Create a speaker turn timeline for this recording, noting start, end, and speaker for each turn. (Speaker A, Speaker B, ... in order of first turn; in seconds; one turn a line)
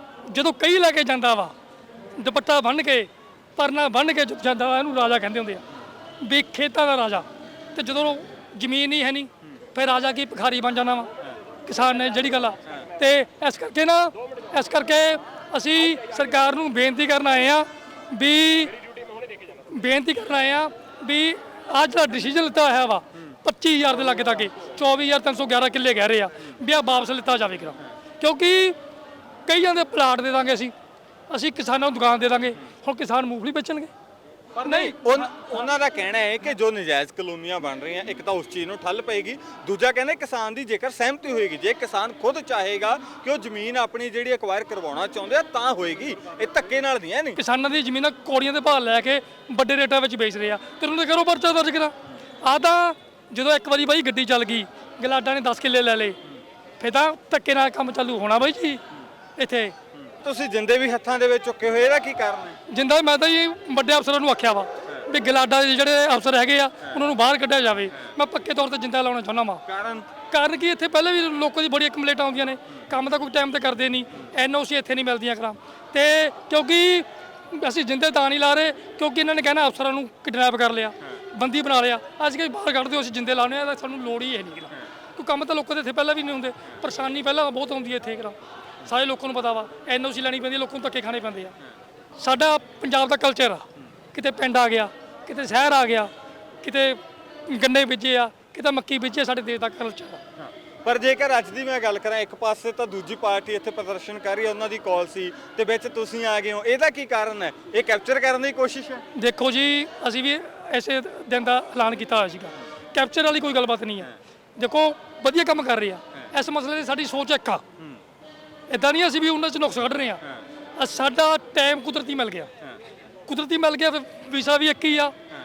Speaker A: 0.3-1.6
Speaker A: 2.2-5.6
Speaker A: 6.2-11.1
Speaker A: 11.7-18.8
Speaker A: 19.7-28.8
Speaker A: 29.5-30.7
Speaker A: 31.3-33.9
Speaker B: 34.5-47.4
Speaker A: 34.6-35.0
Speaker A: 47.4-56.2
Speaker A: 56.8-58.8
Speaker A: 59.4-59.7
Speaker B: 60.2-62.6
Speaker A: 62.7-69.6
Speaker B: 69.7-70.1
Speaker A: 70.2-91.5
Speaker A: 92.2-96.1
Speaker A: 96.6-100.2
Speaker B: 100.8-109.0
Speaker A: 109.2-117.6
Speaker A: 118.7-120.2
Speaker A: 120.8-122.5
Speaker A: 123.3-125.1